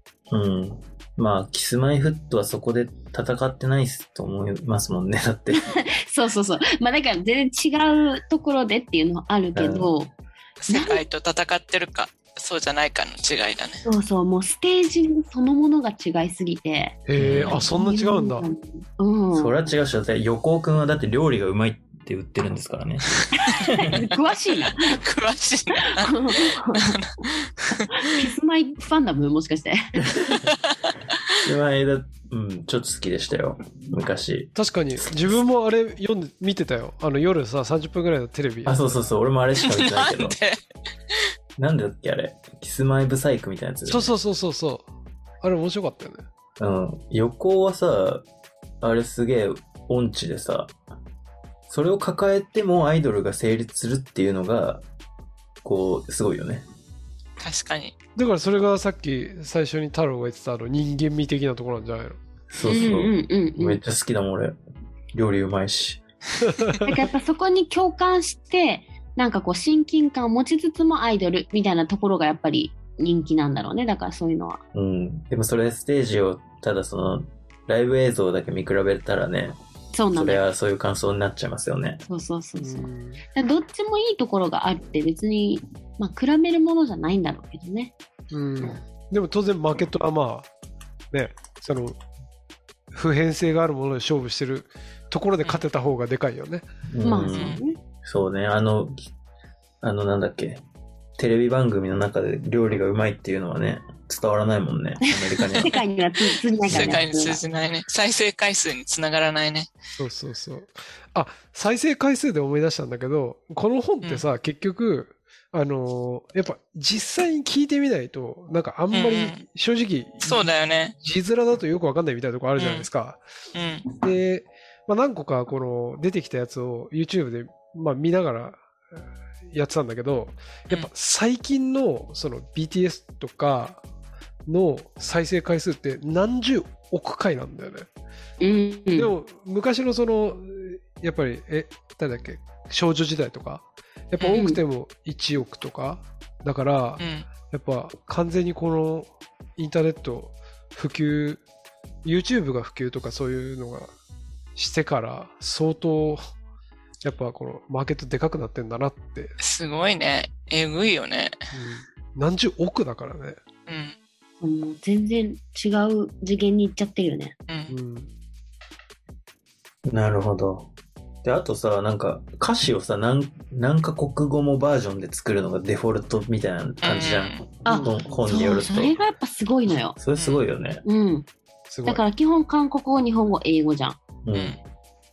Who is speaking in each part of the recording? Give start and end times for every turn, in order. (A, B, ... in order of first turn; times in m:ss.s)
0:00.3-0:05.7 A
0:05.5-0:10.1 B
0:09.5-0:09.9 A
0:10.6-0:13.8 C
0:10.7-0:11.0 B
0:13.8-0:19.5 B
0:17.1-0:18.4 D
0:17.2-0:17.6 A
0:19.3-0:24.1 A
0:23.2-0:23.5 C
0:23.3-0:25.0 B
0:24.7-0:28.1 C
0:25.7-0:27.2 B
0:27.9-0:29.9 B
0:30.0-0:30.5 A
0:30.5-0:30.8 C
0:31.4-0:35.4 A
0:34.5-0:38.9 D
0:38.6-0:40.4 A
0:39.6-0:41.3 C
0:41.6-0:44.1 A
0:43.9-0:44.9 D
0:45.4-0:46.2 D
0:46.6-0:48.2 A
0:48.8-0:50.7 A
0:51.7-0:54.8 A
0:55.6-0:56.6 A
0:57.4-0:57.9 C
0:58.2-1:02.2 D
1:02.5-1:04.6 A
1:02.6-1:03.8 B
1:05.1-1:06.0 A
1:06.4-1:06.9 D
1:06.8-1:14.6 B
1:14.7-1:19.5 A
1:19.9-1:20.4 B
1:20.1-1:22.0 A
1:22.1-1:27.9 B
1:22.6-1:23.2 D
1:28.3-1:30.5 D
1:31.1-1:32.0 D
1:32.9-1:36.6 D
1:36.9-1:39.1 A
1:37.0-1:37.8 B
1:39.8-1:40.6 A
1:41.2-1:45.8 A
1:45.0-1:47.4 B
1:46.7-1:49.7 C
1:50.0-2:03.2 D
1:58.9-1:59.4 C
2:00.2-2:00.9 C
2:02.6-2:02.9 C
2:03.5-2:03.8 C
2:04.0-2:08.6 D
2:09.5-2:13.8 D
2:14.4-2:17.9 D
2:18.4-2:19.1 B
2:18.9-2:31.4 D
2:24.2-2:24.4 C
2:24.3-2:24.6 B
2:27.0-2:27.3 C
2:32.0-2:33.9 D
2:34.6-2:36.2 D
2:37.0-2:39.3 D
2:39.4-2:41.3 C
2:41.5-2:43.4 D
2:43.7-2:44.0 C
2:44.4-2:47.3 B
2:47.7-2:48.1 D
2:49.8-2:50.7 A
2:51.2-2:59.0 A
2:56.8-2:57.4 C
2:57.6-3:00.0 B
2:57.7-2:58.2 D
3:00.0-3:00.8 A
3:00.2-3:00.4 C
3:00.8-3:01.3 B
3:01.7-3:02.0 D
3:01.8-3:04.0 B
3:04.2-3:04.6 A